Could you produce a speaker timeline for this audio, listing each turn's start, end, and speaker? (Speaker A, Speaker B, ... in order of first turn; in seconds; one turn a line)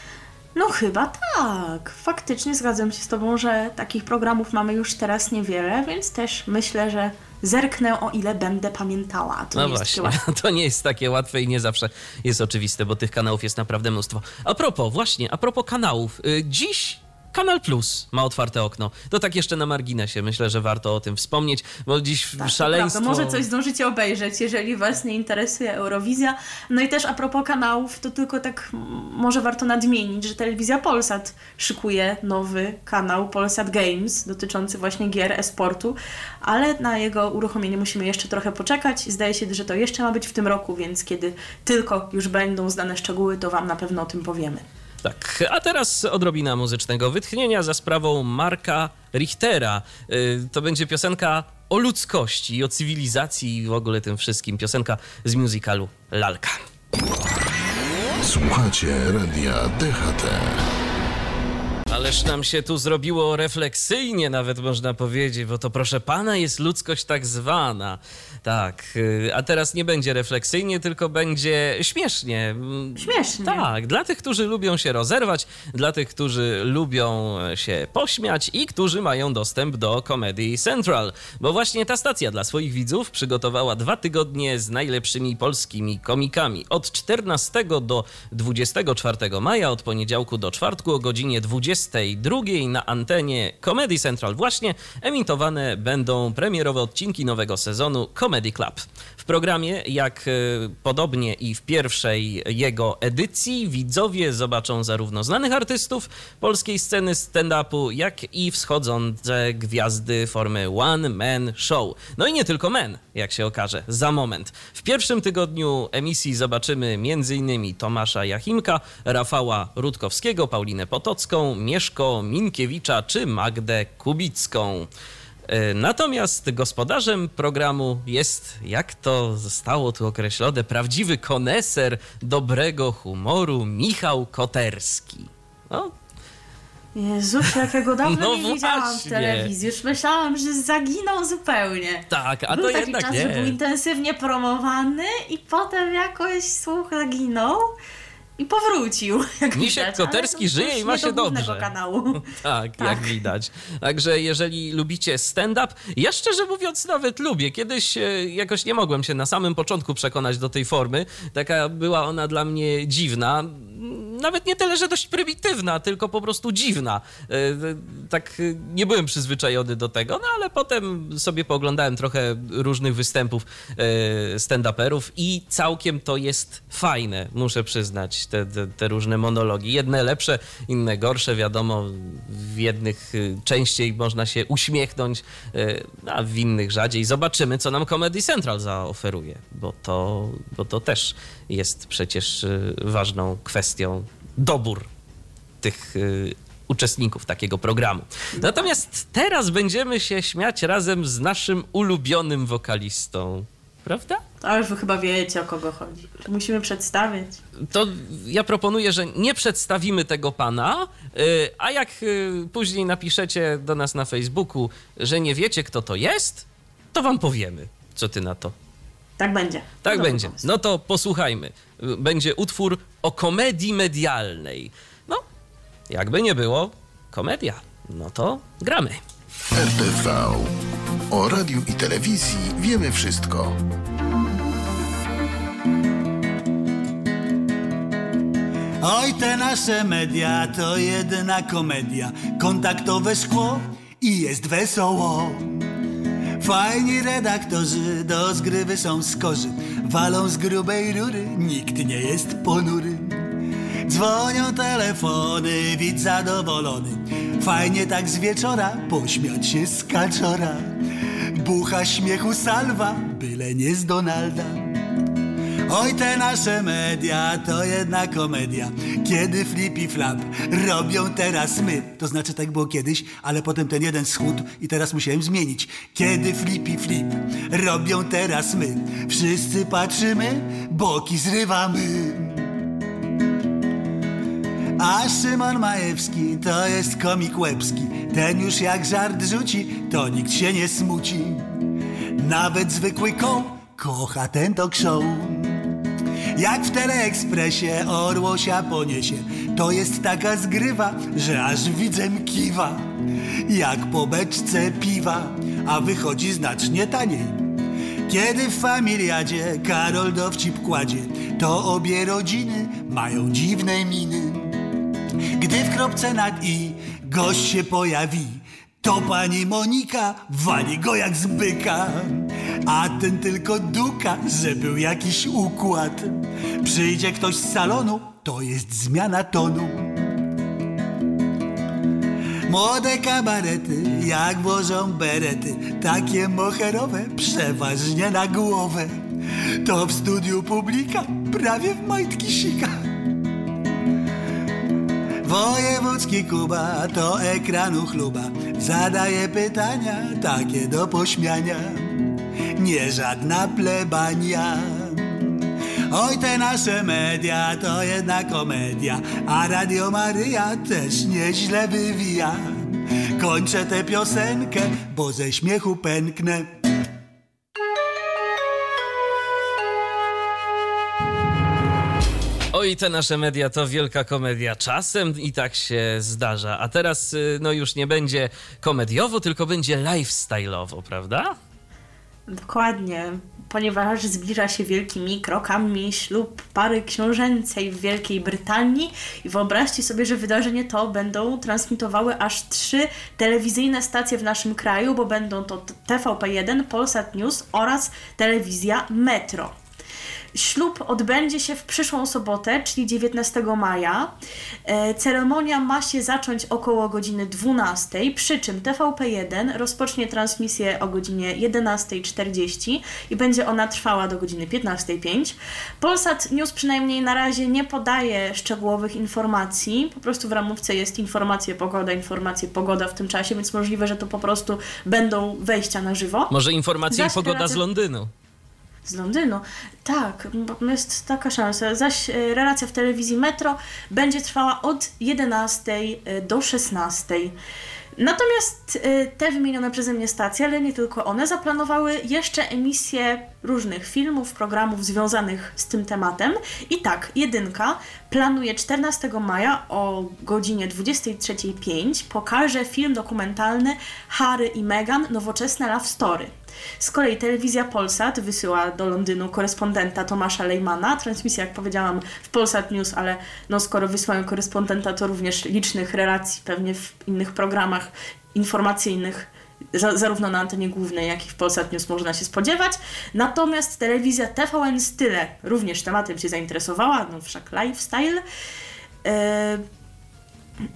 Speaker A: 0.6-10.2
Speaker B: 9.6-23.4
Speaker A: 22.4-44.6
Speaker B: 45.0-56.6
Speaker C: 58.2-60.6
Speaker B: 61.9-124.9
Speaker A: 73.0-73.7
Speaker B: 125.5-135.9
Speaker A: 136.9-147.7
Speaker B: 137.5-139.5
Speaker B: 142.1-143.6
Speaker A: 148.4-153.2
Speaker B: 149.6-151.7
Speaker B: 152.2-194.9
Speaker B: 195.6-204.2
Speaker A: 198.4-198.7
Speaker A: 204.4-207.4
Speaker B: 207.6-218.5
Speaker A: 219.2-220.4
Speaker B: 219.8-225.2
Speaker B: 225.9-229.0
Speaker C: 229.5-230.6
Speaker C: 231.1-233.6
Speaker D: 238.8-245.6
Speaker D: 246.4-253.2
Speaker D: 253.8-260.7
Speaker D: 261.4-264.7
Speaker D: 265.7-282.4
Speaker D: 284.8-291.5
Speaker D: 292.2-295.6
Speaker D: 296.4-302.8
Speaker D: 303.5-307.5
Speaker D: 308.1-314.6
Speaker D: 315.4-329.9
Speaker D: 332.5-339.0
Speaker D: 339.6-342.8
Speaker D: 345.2-355.3
Speaker D: 355.9-366.5
Speaker B: 372.5-381.4
Speaker A: 382.3-399.5
Speaker A: 400.4-404.1
Speaker A: 404.7-426.3
Speaker B: 426.3-428.1
Speaker A: 426.9-427.6
Speaker A: 428.9-437.4
Speaker A: 438.0-478.2
Speaker A: 479.0-479.6